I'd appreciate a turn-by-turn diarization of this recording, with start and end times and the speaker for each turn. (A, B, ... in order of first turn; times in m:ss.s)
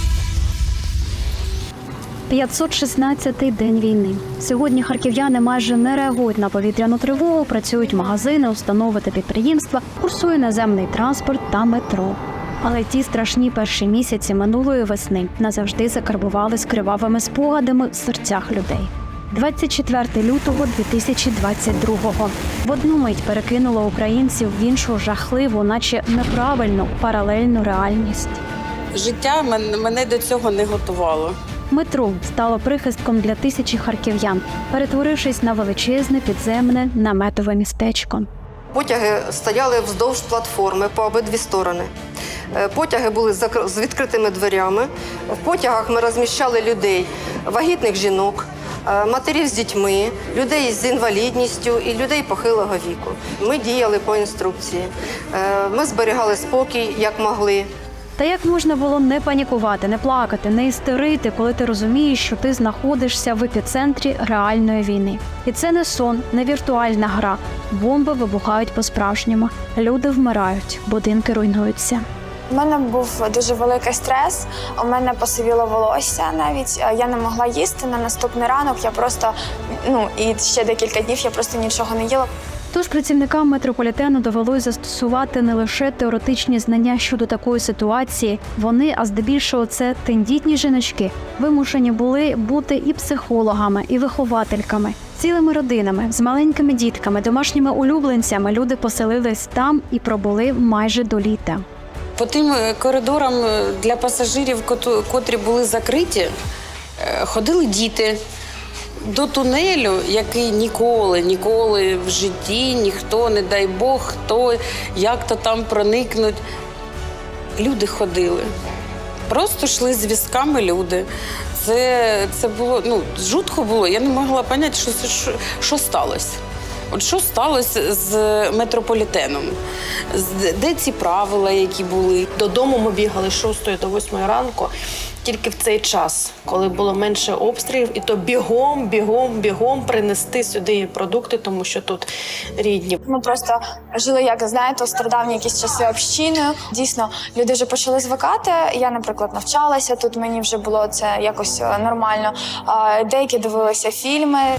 0:02.3-0:28.4 A
0:28.9-0:31.4 B
0:31.7-0:38.3 A
0:38.7-0:41.9 C
0:42.5-0:57.7 C
0:58.2-1:12.0 A
1:12.5-1:22.3 D
1:22.7-1:41.6 A
1:42.2-1:46.3 B
1:47.0-1:48.2 B
1:49.0-1:56.4 B
1:57.6-1:58.5 B
1:59.3-2:06.4 B
2:06.9-2:09.6 B
2:10.1-2:12.2 B
2:12.3-2:14.7 E
2:15.2-2:23.0 E
2:23.0-2:34.5 D